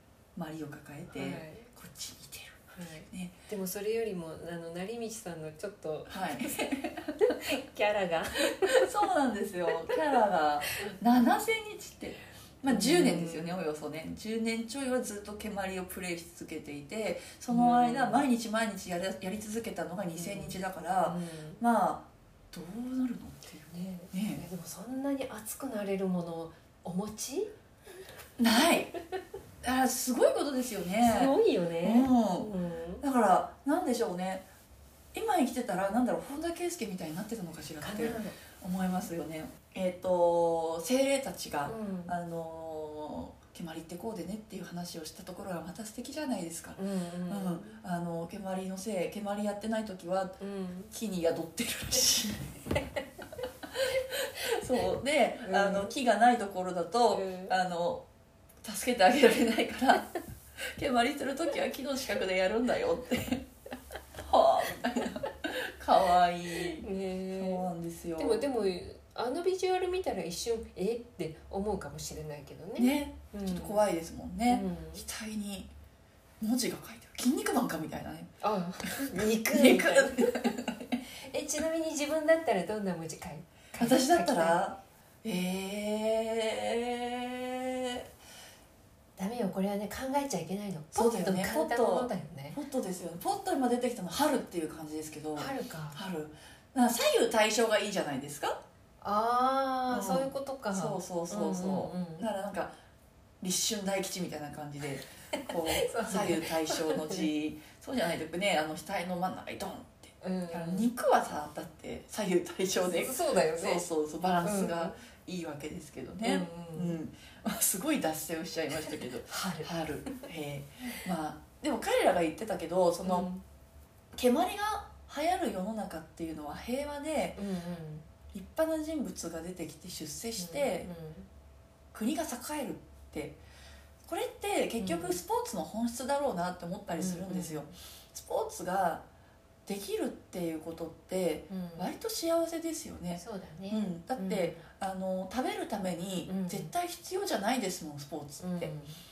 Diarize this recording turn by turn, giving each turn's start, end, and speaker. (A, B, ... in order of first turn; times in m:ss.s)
0:00.3-0:03.3 A
0:01.1-0:01.7 B
0:02.8-0:06.6 B
0:06.1-0:07.6 A
0:07.2-0:08.9 B
0:08.7-0:24.4 A
0:12.7-0:13.5 B
0:17.5-0:18.2 B
0:20.2-0:21.6 B
0:23.7-0:27.5 B
0:28.4-0:28.9 A
0:29.6-0:34.4 A
0:31.0-0:33.0 B
0:35.1-0:50.4 A
0:37.8-0:38.3 B
0:41.6-0:42.1 B
0:46.8-0:47.8 B
0:50.4-0:50.9 B
0:50.9-0:52.5 A
0:53.7-0:58.0 A
0:55.4-0:55.9 B
0:57.1-0:57.5 B
0:58.6-1:03.5 A
1:04.2-1:08.5 A
1:06.6-1:13.8 B
1:12.8-1:15.7 A
1:14.5-1:15.0 B
1:16.4-1:18.3 A
1:18.4-1:20.6 B
1:18.8-1:21.0 A
1:21.2-1:24.6 B
1:23.8-1:28.1 A
1:29.2-1:32.6 B
1:30.9-1:38.6 A
1:35.4-1:36.0 B
1:39.0-1:42.3 B
1:39.9-1:42.7 A
1:43.4-2:03.3 A
1:45.3-1:47.3 B
1:50.2-1:50.9 B
1:52.8-1:53.8 B
1:54.4-1:54.9 B
1:56.2-1:57.0 B
1:59.3-2:00.2 B
2:03.0-2:03.4 B
2:04.1-2:07.4 A
2:07.4-2:08.0 B
2:08.3-2:10.9 A
2:10.4-2:11.3 B
2:11.9-2:13.4 A
2:14.0-2:19.0 A
2:14.8-2:15.2 B
2:17.0-2:17.7 B
2:19.6-2:28.7 A
2:21.5-2:21.9 B
2:23.2-2:24.6 B
2:26.3-2:26.7 B
2:28.4-2:29.0 B